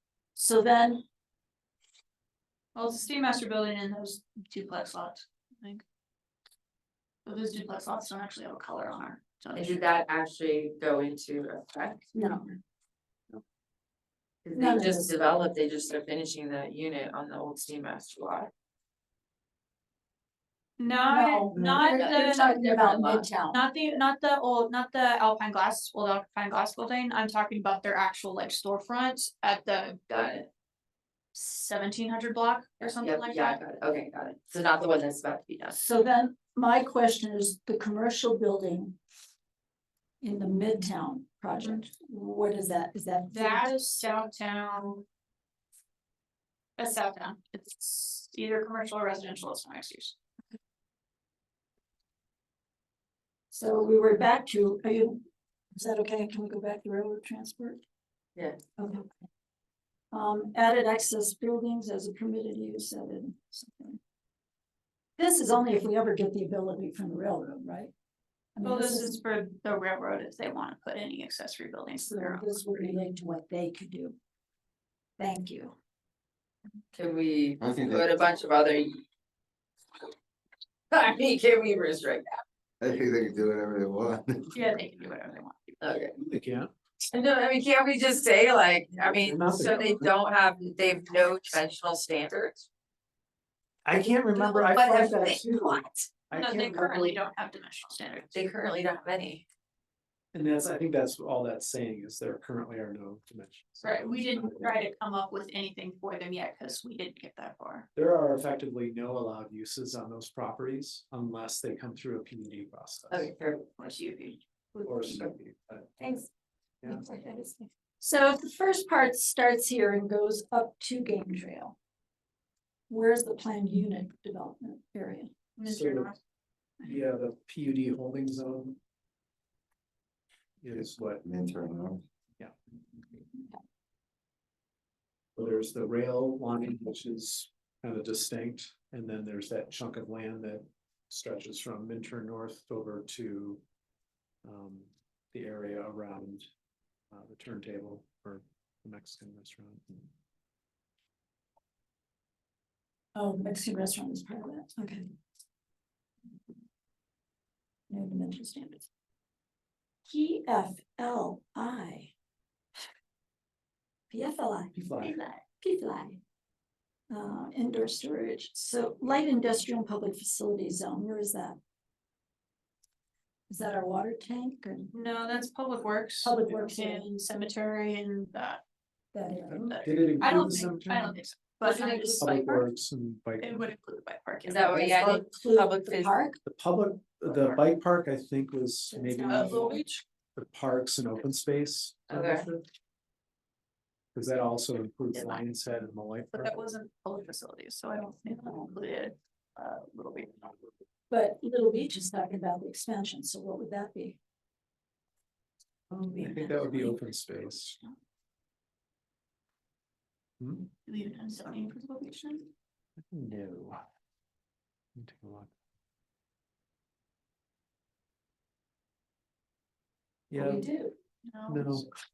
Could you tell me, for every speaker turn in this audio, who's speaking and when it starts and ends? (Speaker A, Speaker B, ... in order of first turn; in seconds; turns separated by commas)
Speaker A: 0.3-1.0, Speaker B: 2.7-5.8, Speaker B: 7.2-9.9, Speaker C: 9.5-12.1, Speaker A: 12.1-12.6, Speaker C: 14.4-18.5, Speaker A: 14.5-15.1, Speaker B: 20.8-22.6, Speaker A: 21.1-23.6, Speaker C: 21.5-23.3, Speaker B: 23.5-30.4, Speaker C: 30.1-30.5, Speaker B: 31.3-33.6, Speaker C: 32.8-35.8, Speaker A: 35.8-39.0, Speaker A: 40.2-43.8, Speaker B: 43.3-45.0, Speaker B: 46.8-50.1, Speaker A: 53.5-57.8, Speaker A: 58.8-59.1, Speaker A: 60.1-64.0, Speaker A: 65.2-67.9, Speaker A: 68.5-69.2, Speaker B: 68.6-72.5, Speaker A: 72.0-74.2, Speaker A: 75.2-75.7, Speaker C: 76.9-79.0, Speaker D: 77.6-78.1, Speaker C: 80.9-82.4, Speaker D: 82.8-84.5, Speaker B: 84.5-86.0, Speaker C: 85.8-86.2, Speaker E: 86.2-86.7, Speaker C: 87.1-92.6, Speaker E: 89.0-90.0, Speaker E: 93.8-97.2, Speaker C: 94.3-96.0, Speaker B: 96.3-98.4, Speaker C: 98.3-99.4, Speaker E: 100.3-104.7, Speaker B: 103.8-107.9, Speaker E: 107.9-113.3, Speaker C: 113.1-113.7, Speaker B: 113.8-114.4, Speaker E: 114.8-115.9, Speaker C: 116.0-116.3, Speaker E: 116.8-117.1, Speaker A: 116.8-121.8, Speaker A: 122.9-125.3, Speaker B: 125.6-126.2, Speaker E: 125.6-126.1, Speaker E: 126.8-128.8, Speaker E: 130.6-131.2, Speaker D: 131.2-132.0, Speaker E: 135.3-143.6, Speaker E: 144.4-146.5, Speaker E: 147.1-150.1, Speaker A: 153.1-155.1, Speaker A: 157.9-158.9, Speaker A: 160.1-162.1, Speaker A: 164.1-164.7, Speaker E: 164.7-165.2, Speaker B: 165.0-165.4, Speaker A: 165.6-166.2, Speaker A: 167.1-171.6, Speaker A: 173.5-174.9, Speaker B: 174.9-178.6, Speaker A: 176.2-177.1, Speaker A: 179.1-179.7, Speaker E: 179.5-181.1, Speaker B: 179.5-182.7, Speaker C: 181.6-182.3, Speaker E: 182.2-183.7, Speaker B: 183.4-184.9, Speaker C: 184.4-186.2, Speaker A: 184.7-186.4, Speaker E: 186.4-189.7, Speaker B: 187.3-187.6, Speaker A: 188.9-189.8, Speaker B: 189.3-189.7, Speaker C: 189.5-190.0, Speaker E: 190.3-192.6, Speaker C: 192.1-192.5, Speaker E: 194.1-196.5, Speaker B: 196.3-200.6, Speaker A: 198.3-198.6, Speaker A: 201.1-204.2, Speaker E: 206.1-207.8, Speaker C: 206.1-207.0, Speaker E: 210.4-210.7, Speaker B: 210.8-212.5, Speaker E: 213.1-213.8, Speaker E: 214.9-215.5, Speaker E: 220.3-220.7, Speaker A: 220.3-220.9, Speaker B: 221.3-221.9, Speaker E: 221.5-221.9